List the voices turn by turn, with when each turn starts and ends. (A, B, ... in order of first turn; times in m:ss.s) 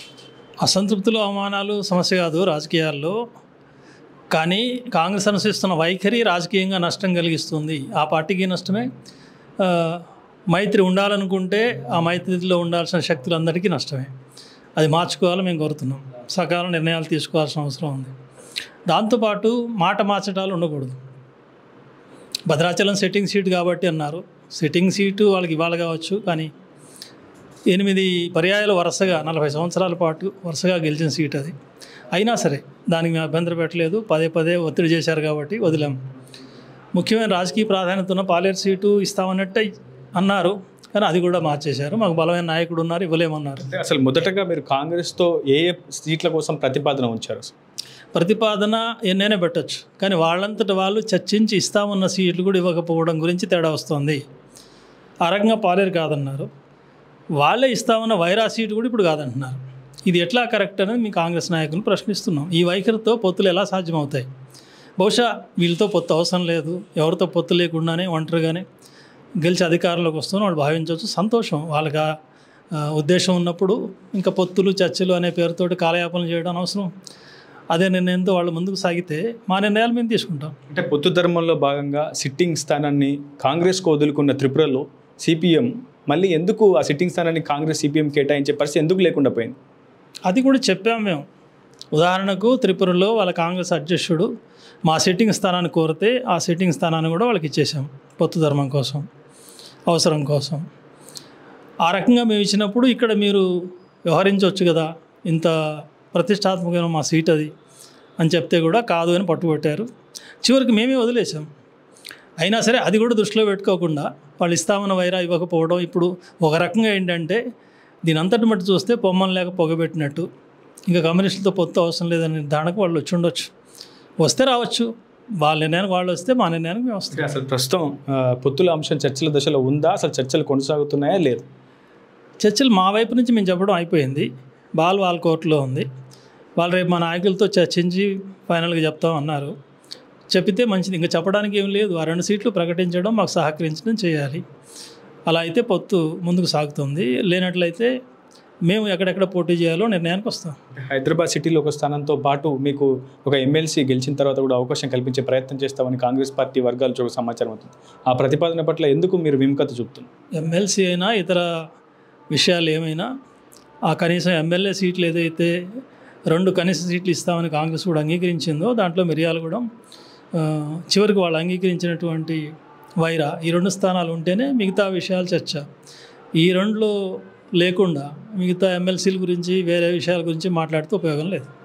0:00.6-0:03.2 A
0:04.3-0:08.9 A
0:09.6-0:14.1 A
0:14.8-0:18.1 A
0:18.9-0:21.0 A
0:22.5-0:26.5 A
0:27.7-0:31.5 A
0:32.1-0:36.0 A
0:36.9-0:43.6 A
0:43.6-0:47.5 B
0:48.1-0:54.2 A
0:55.2-0:56.5 A
0:57.4-1:04.3 A
1:05.0-1:08.6 A
1:09.4-1:12.1 A
1:12.7-1:16.9 A
1:17.7-1:20.5 A
1:20.7-1:29.6 B
1:30.3-1:31.2 A
1:31.9-1:34.3 A
1:34.8-1:39.0 A
1:39.9-1:40.6 A
1:41.8-1:43.5 A
1:44.1-1:45.5 A
1:46.1-1:47.5 A
1:48.2-1:49.8 A
1:50.4-1:51.5 A
1:52.4-1:57.4 A
1:58.0-2:00.3 A
2:00.9-2:03.5 A
2:04.2-2:04.9 A
2:05.4-2:07.3 A
2:07.1-2:11.4 B
2:12.4-2:15.9 A
2:16.6-2:19.5 A
2:20.3-2:24.4 A
2:25.3-2:27.9 A
2:28.6-2:30.6 A
2:30.8-2:40.1 B
2:40.4-2:41.5 A
2:42.3-2:43.1 A
2:43.9-2:45.6 A
2:46.3-2:49.6 A
2:50.3-2:52.4 A
2:53.0-2:55.6 A
2:56.4-3:01.5 A